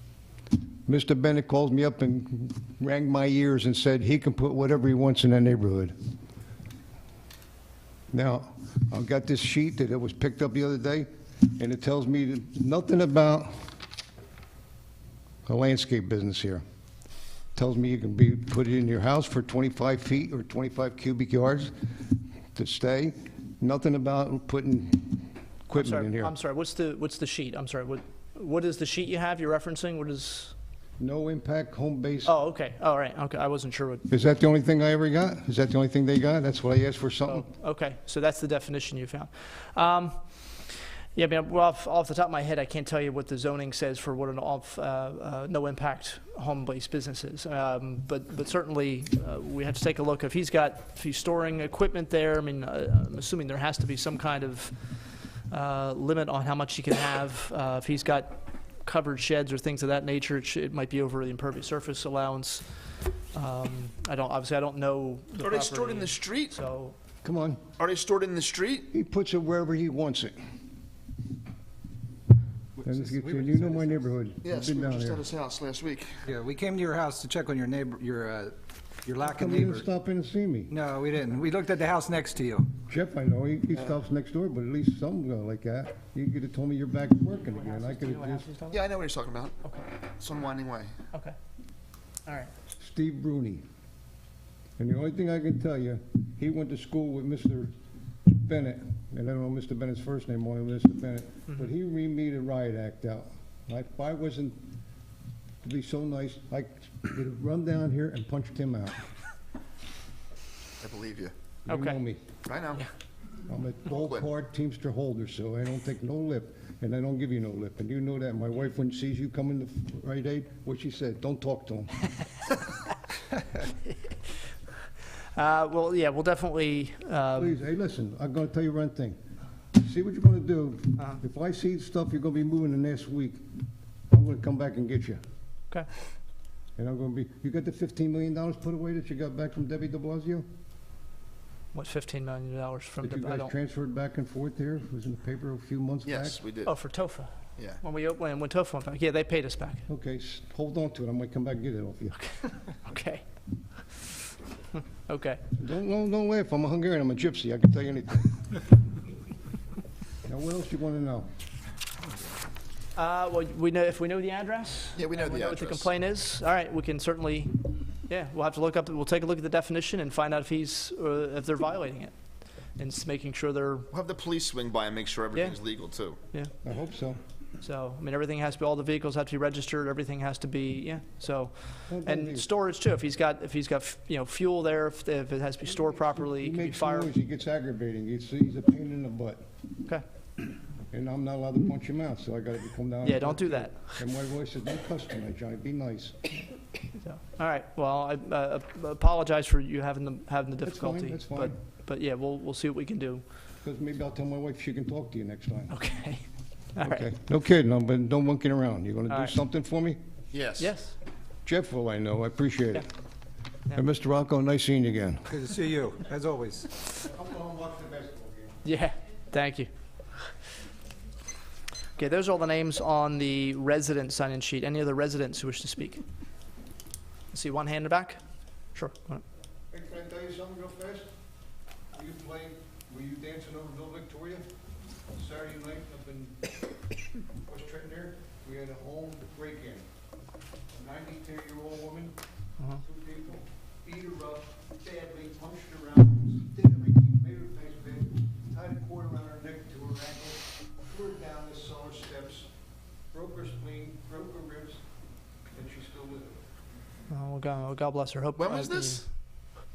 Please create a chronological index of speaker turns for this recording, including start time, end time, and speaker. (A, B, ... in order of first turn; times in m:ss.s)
0:00.8-0:05.9 A
0:08.1-0:13.7 A
0:15.4-0:16.6 A
0:17.5-0:21.7 A
0:22.5-0:26.3 A
0:25.8-0:30.5 B
0:31.0-0:32.3 A
0:32.2-0:34.1 B
0:34.1-0:37.5 A
0:37.3-0:40.2 B
0:41.1-0:54.7 B
0:55.5-1:02.6 B
1:03.3-1:06.9 B
1:05.4-1:06.5 C
1:07.2-1:07.6 A
1:07.8-1:08.9 C
1:08.9-1:10.4 A
1:12.8-1:14.1 D
1:12.8-1:15.2 A
1:14.4-1:16.1 C
1:16.2-1:19.9 D
1:19.2-1:20.7 A
1:20.7-1:22.7 D
1:22.9-1:28.5 A
1:27.5-1:28.9 B
1:28.7-1:29.6 C
1:30.2-1:30.9 C
1:32.2-1:32.5 B
1:32.8-1:33.6 A
1:34.8-1:37.7 A
1:38.2-1:44.6 A
1:45.6-1:49.1 A
1:50.8-1:51.3 C
1:51.6-1:52.3 A
1:51.7-1:52.0 B
1:52.4-1:52.8 C
1:53.5-2:02.0 A
1:53.9-1:54.2 C
2:05.3-2:07.6 B
2:07.4-2:09.2 A
2:09.8-2:13.4 A
2:14.1-2:15.2 A
2:16.8-2:20.4 A
2:21.7-2:23.5 B
2:23.0-2:26.4 A
2:26.0-2:26.7 C
2:26.6-2:27.3 B
2:27.8-2:29.8 B
2:29.9-2:32.2 A
2:32.7-2:33.2 B
2:35.0-2:35.4 B
2:35.6-2:38.6 A
2:40.2-2:41.3 A
2:43.0-2:52.1 B
2:45.0-2:45.9 C
2:52.8-2:53.9 B
2:53.9-2:56.2 C
2:55.3-2:55.6 B
2:56.6-2:57.2 A
2:57.6-3:07.1 B
3:01.9-3:02.4 A
3:05.9-3:09.4 A
3:10.9-3:16.2 A
3:13.0-3:13.9 B
3:17.0-3:23.2 B
3:20.6-3:21.5 A
3:23.6-3:25.7 A
3:25.7-3:26.2 B
3:26.8-3:27.0 B
3:26.8-3:30.0 A
3:29.1-3:29.4 B
3:30.3-3:30.7 C
3:30.6-3:31.0 B
3:31.4-3:32.9 A
3:33.7-3:35.4 A
3:35.3-3:36.7 D
3:36.9-3:38.6 A
3:38.6-3:39.7 B
3:42.0-3:46.0 B
3:47.3-3:48.2 B
3:48.7-3:49.2 B
3:49.7-3:51.1 A
3:51.9-3:54.4 A
3:55.1-3:56.6 A
3:57.4-3:59.9 A
4:00.7-4:02.2 A
4:02.8-4:12.5 A
4:13.1-4:14.8 A
4:15.5-4:16.4 A
4:17.1-4:19.1 B
4:18.4-4:19.0 C